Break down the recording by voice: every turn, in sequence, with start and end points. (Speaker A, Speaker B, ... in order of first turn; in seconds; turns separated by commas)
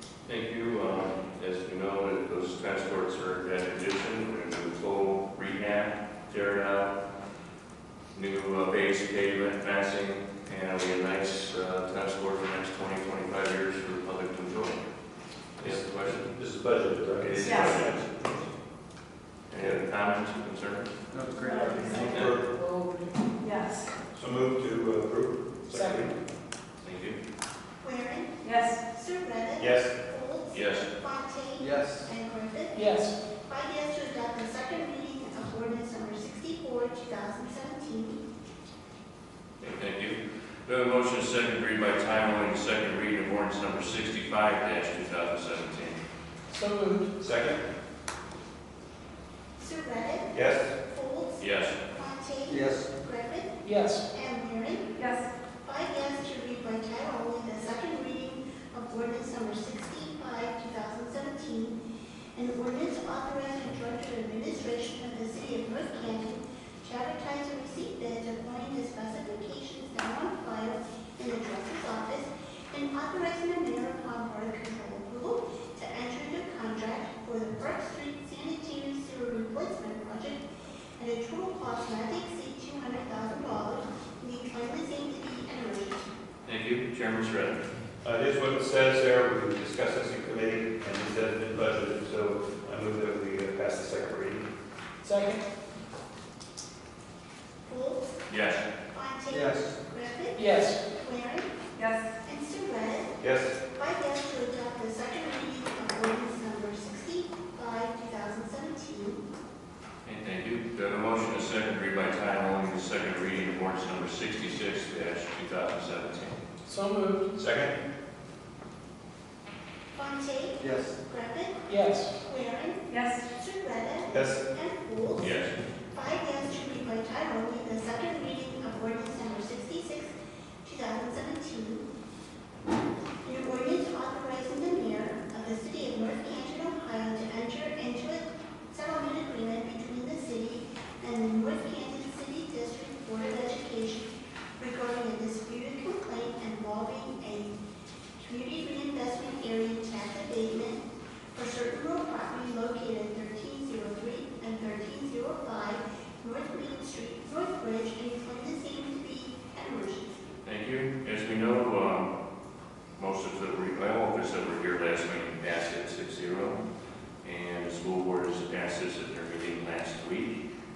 Speaker A: 0.3-6.9, Speaker A: 8.1-14.8, Speaker A: 15.6-16.3, Speaker B: 15.6-18.4, Speaker A: 17.2-18.1, Speaker C: 17.4-17.8, Speaker A: 19.5-20.9, Speaker D: 21.1-22.3, Speaker C: 21.4-22.1, Speaker A: 21.9-22.4, Speaker E: 22.0-23.1, Speaker B: 22.1-22.5, Speaker C: 23.4-23.9, Speaker B: 24.1-26.1, Speaker E: 25.7-26.0, Speaker A: 26.8-27.2, Speaker F: 27.8-38.2, Speaker C: 28.4-28.8, Speaker B: 29.6-29.9, Speaker A: 30.5-30.9, Speaker D: 31.6-32.0, Speaker E: 32.7-33.2, Speaker A: 39.6-46.0, Speaker E: 46.5-47.1, Speaker B: 47.2-47.6, Speaker F: 49.6-55.0, Speaker B: 50.3-50.7, Speaker A: 51.4-51.8, Speaker D: 52.5-52.9, Speaker E: 53.6-54.1, Speaker C: 55.0-55.3, Speaker F: 55.6-61.8, Speaker F: 62.4-80.4, Speaker F: 81.0-86.1, Speaker A: 86.5-87.6, Speaker B: 88.0-94.4, Speaker E: 95.0-95.4, Speaker F: 97.7-98.1, Speaker A: 98.3-98.6, Speaker F: 98.9-101.5, Speaker D: 99.3-99.7, Speaker E: 100.3-100.8, Speaker C: 101.8-102.0, Speaker F: 102.2-103.2, Speaker B: 103.2-103.6, Speaker F: 103.7-109.2, Speaker A: 110.0-116.4, Speaker E: 116.7-117.3, Speaker B: 117.4-117.7, Speaker F: 119.9-125.3, Speaker D: 120.6-120.9, Speaker E: 121.7-122.1, Speaker C: 122.9-123.2, Speaker B: 124.1-124.4, Speaker A: 125.2-125.5, Speaker F: 125.9-130.1, Speaker F: 130.6-131.8, Speaker F: 133.2-144.0, Speaker F: 144.6-147.6, Speaker F: 148.2-150.8, Speaker F: 151.3-160.3, Speaker A: 160.4-162.1, Speaker A: 163.0-166.6, Speaker A: 167.2-170.4